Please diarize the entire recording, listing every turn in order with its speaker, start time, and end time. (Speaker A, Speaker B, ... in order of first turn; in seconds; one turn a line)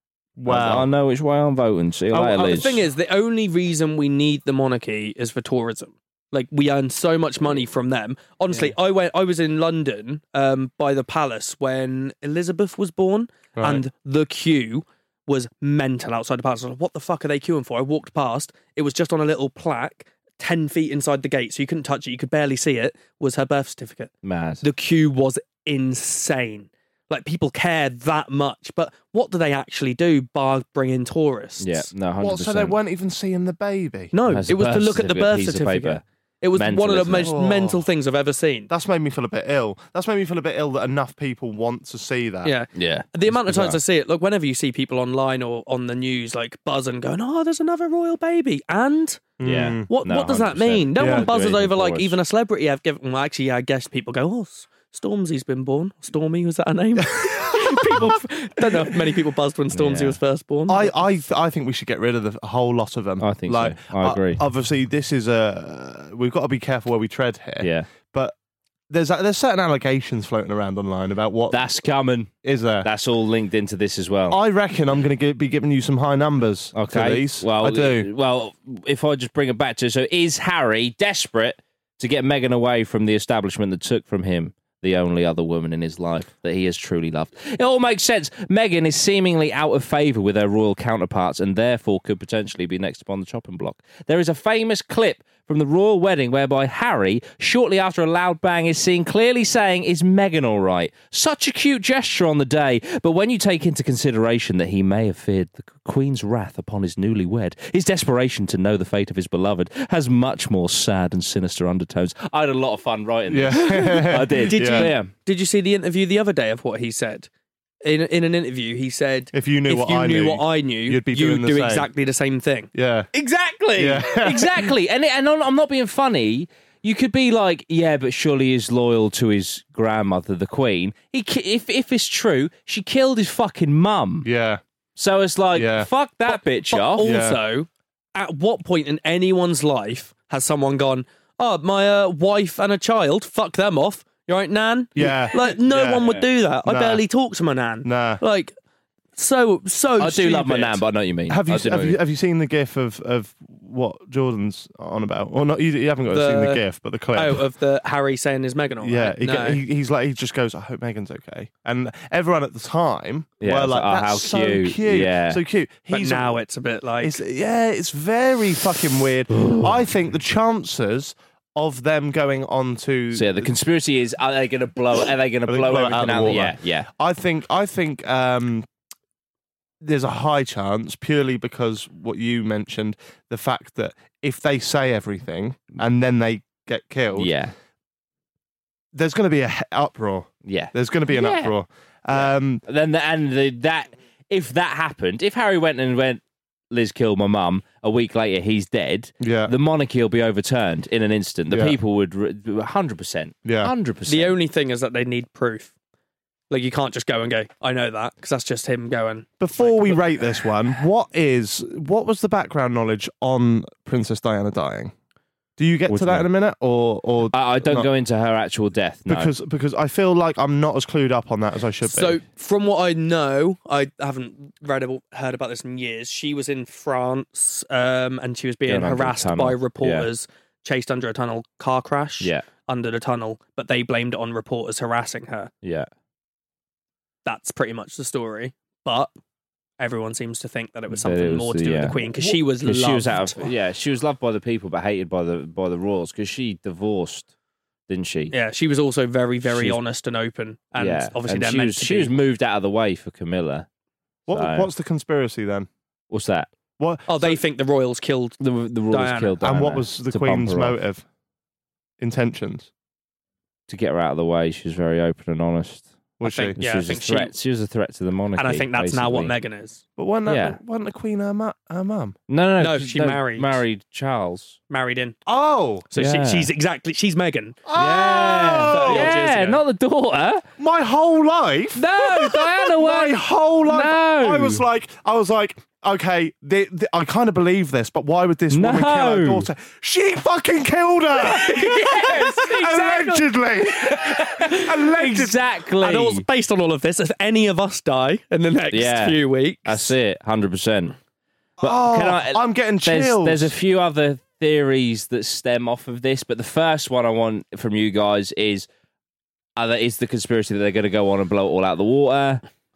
Speaker A: 0.4-0.9
Speaker B: 0.5-2.8
Speaker A: 2.1-2.7
Speaker C: 2.4-24.1
Speaker A: 13.6-13.8
Speaker B: 24.2-24.6
Speaker C: 24.6-31.9
Speaker B: 31.6-32.8
Speaker A: 32.2-34.1
Speaker C: 34.1-38.7
Speaker B: 34.3-36.0
Speaker B: 36.5-37.3
Speaker A: 37.2-37.8
Speaker A: 38.7-42.5
Speaker C: 42.4-49.3
Speaker B: 42.7-43.8
Speaker A: 49.4-49.9
Speaker B: 49.4-52.2
Speaker C: 49.9-61.0
Speaker A: 51.0-51.3
Speaker A: 57.0-58.6
Speaker B: 59.7-60.2
Speaker A: 60.7-68.3
Speaker B: 63.2-64.4
Speaker B: 67.6-67.9
Speaker A: 68.9-71.6
Speaker B: 71.5-72.3
Speaker A: 72.4-72.9
Speaker B: 72.8-74.4
Speaker A: 74.3-78.1
Speaker B: 76.8-115.1
Speaker A: 113.3-114.9
Speaker C: 113.8-117.3
Speaker C: 117.8-124.0
Speaker A: 119.3-121.9
Speaker A: 122.7-123.1
Speaker A: 123.8-124.7
Speaker B: 124.0-134.3
Speaker A: 134.2-134.6
Speaker B: 135.0-137.1
Speaker A: 135.5-135.9
Speaker C: 136.3-148.5
Speaker A: 137.0-137.4
Speaker A: 145.0-146.0
Speaker A: 146.7-147.0
Speaker A: 147.8-148.2
Speaker C: 149.2-150.8
Speaker B: 150.0-152.0
Speaker A: 151.3-157.4
Speaker C: 156.1-156.6
Speaker C: 157.2-159.6
Speaker A: 158.8-166.4
Speaker B: 163.4-165.4
Speaker C: 165.9-167.2
Speaker A: 167.0-173.5
Speaker B: 173.1-176.9
Speaker A: 175.5-178.7
Speaker A: 179.8-187.3
Speaker B: 187.2-187.5
Speaker A: 188.9-192.6
Speaker B: 190.4-191.6
Speaker B: 192.1-204.3
Speaker A: 199.2-199.5
Speaker A: 201.5-201.8
Speaker A: 203.4-203.7
Speaker C: 204.1-205.7
Speaker C: 206.5-210.1
Speaker A: 209.4-214.9
Speaker A: 215.6-217.9
Speaker B: 215.9-216.3
Speaker B: 217.3-219.3
Speaker A: 219.1-222.2
Speaker C: 221.8-235.5
Speaker B: 228.7-230.1
Speaker B: 235.6-235.9
Speaker C: 237.2-239.1
Speaker C: 239.8-243.5
Speaker B: 240.9-247.3
Speaker B: 247.9-248.3
Speaker C: 248.3-252.1
Speaker B: 249.4-249.8
Speaker B: 250.8-253.7
Speaker A: 254.3-255.7
Speaker B: 254.3-254.7
Speaker B: 256.1-256.5
Speaker A: 256.8-257.4
Speaker C: 257.1-258.4
Speaker B: 258.4-260.8
Speaker C: 258.9-259.3
Speaker A: 259.4-261.0
Speaker A: 262.0-262.7
Speaker B: 263.7-265.9
Speaker A: 266.2-266.6
Speaker C: 266.2-267.3
Speaker B: 266.6-269.4
Speaker C: 268.4-269.8
Speaker A: 270.0-272.2
Speaker B: 270.3-270.6
Speaker B: 272.3-274.6
Speaker C: 272.6-273.6
Speaker C: 274.7-275.2
Speaker A: 275.3-275.9
Speaker C: 275.9-277.6
Speaker B: 276.0-276.5
Speaker A: 277.7-279.1
Speaker B: 277.8-280.4
Speaker C: 278.7-279.6
Speaker A: 280.6-295.4
Speaker B: 281.8-284.6
Speaker B: 288.5-289.5
Speaker C: 291.3-292.8
Speaker B: 291.3-293.2
Speaker B: 294.0-296.2
Speaker C: 295.8-299.9
Speaker B: 298.7-301.0
Speaker A: 301.6-303.5
Speaker B: 301.6-308.7
Speaker B: 309.6-312.4